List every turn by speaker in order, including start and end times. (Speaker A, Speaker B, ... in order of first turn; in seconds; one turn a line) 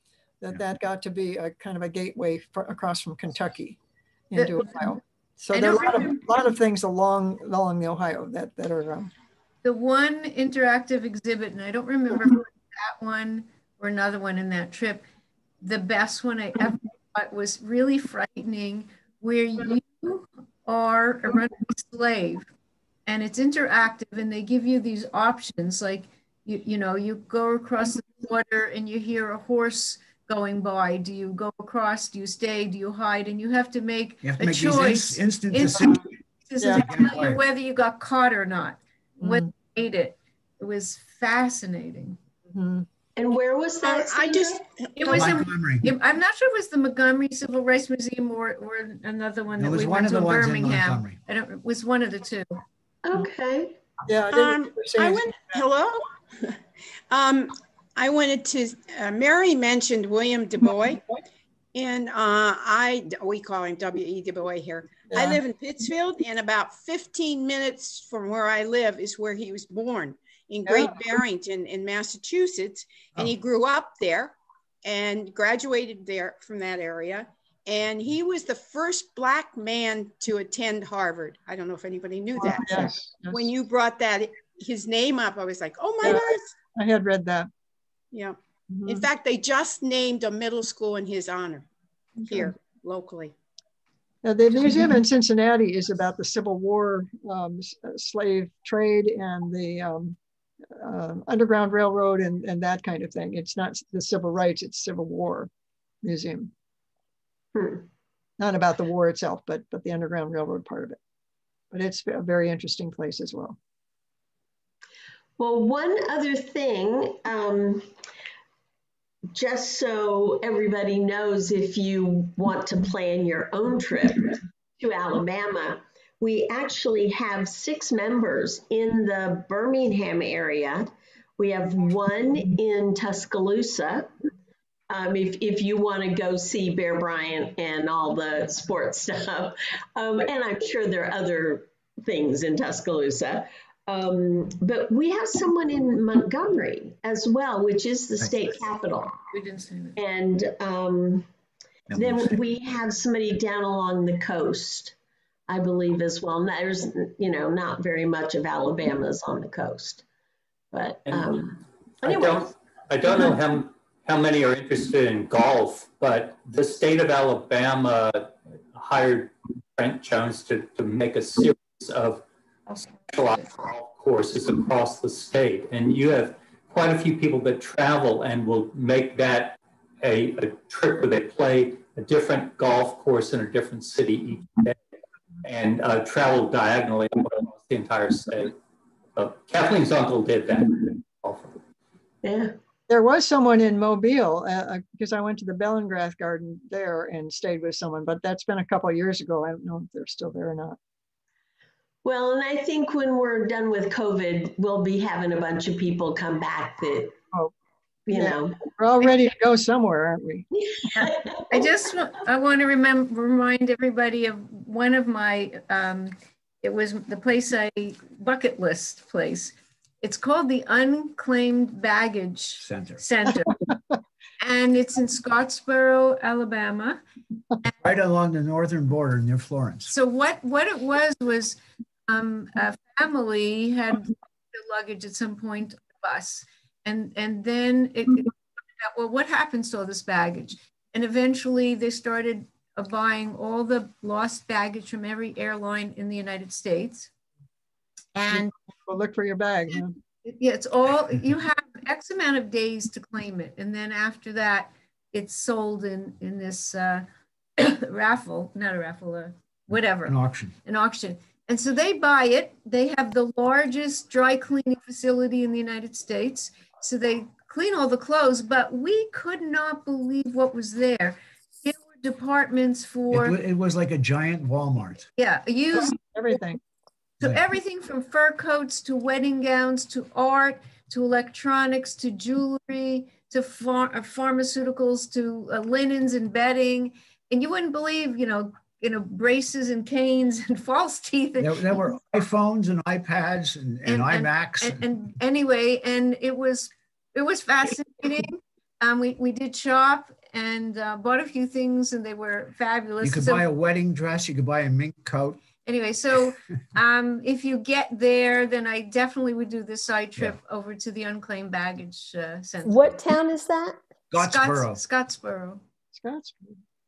Speaker A: 0.4-3.8
Speaker A: 4.3-9.1
Speaker B: 4.4-4.9
Speaker B: 5.5-6.2
Speaker B: 9.6-15.1
Speaker B: 15.6-22.5
Speaker B: 23.1-42.2
Speaker C: 34.2-37.4
Speaker A: 39.2-39.5
Speaker A: 42.5-42.9
Speaker D: 43.2-44.6
Speaker E: 43.8-45.0
Speaker B: 45.0-52.6
Speaker C: 45.0-45.9
Speaker C: 49.6-51.2
Speaker D: 53.0-53.8
Speaker A: 54.1-55.6
Speaker E: 54.3-56.5
Speaker E: 57.1-61.0
Speaker E: 61.7-86.5
Speaker A: 65.1-65.4
Speaker A: 70.7-71.0
Speaker A: 82.4-83.5
Speaker A: 86.0-87.5
Speaker E: 88.1-91.7
Speaker A: 88.7-89.1
Speaker E: 92.2-93.3
Speaker A: 94.2-100.2
Speaker A: 100.8-105.5
Speaker A: 106.0-106.5
Speaker D: 107.5-107.9
Speaker A: 108.4-111.0
Speaker A: 111.7-113.6
Speaker D: 115.4-117.9
Speaker D: 119.3-134.1
Speaker D: 134.9-149.2
Speaker B: 149.3-150.0
Speaker D: 150.0-151.3
Speaker C: 151.9-152.3
Speaker D: 151.9-154.9
Speaker D: 155.5-160.1
Speaker D: 160.7-162.5
Speaker F: 161.1-161.4
Speaker F: 162.0-172.2
Speaker B: 172.7-173.3
Speaker F: 173.1-184.8
Speaker F: 185.4-188.6
Speaker F: 189.2-191.6
Speaker D: 192.2-192.6
Speaker A: 192.9-200.8
Speaker D: 202.0-207.2
Speaker D: 208.1-208.6
Speaker A: 208.1-210.5
Speaker D: 210.9-211.7
Speaker B: 211.0-223.7
Speaker C: 222.6-223.0
Speaker B: 224.4-227.0
Speaker C: 227.8-229.9
Speaker B: 229.9-247.1
Speaker B: 248.2-248.5
Speaker A: 248.3-250.0
Speaker B: 250.2-257.1
Speaker B: 257.6-273.4
Speaker C: 260.1-260.6
Speaker C: 273.1-275.1
Speaker B: 275.2-276.0
Speaker A: 275.7-276.6
Speaker B: 277.2-291.8
Speaker C: 291.4-295.0
Speaker B: 293.9-303.5
Speaker C: 303.0-305.4
Speaker B: 305.6-312.9
Speaker D: 312.6-313.8
Speaker C: 314.1-314.8
Speaker B: 314.2-315.6
Speaker A: 315.9-316.6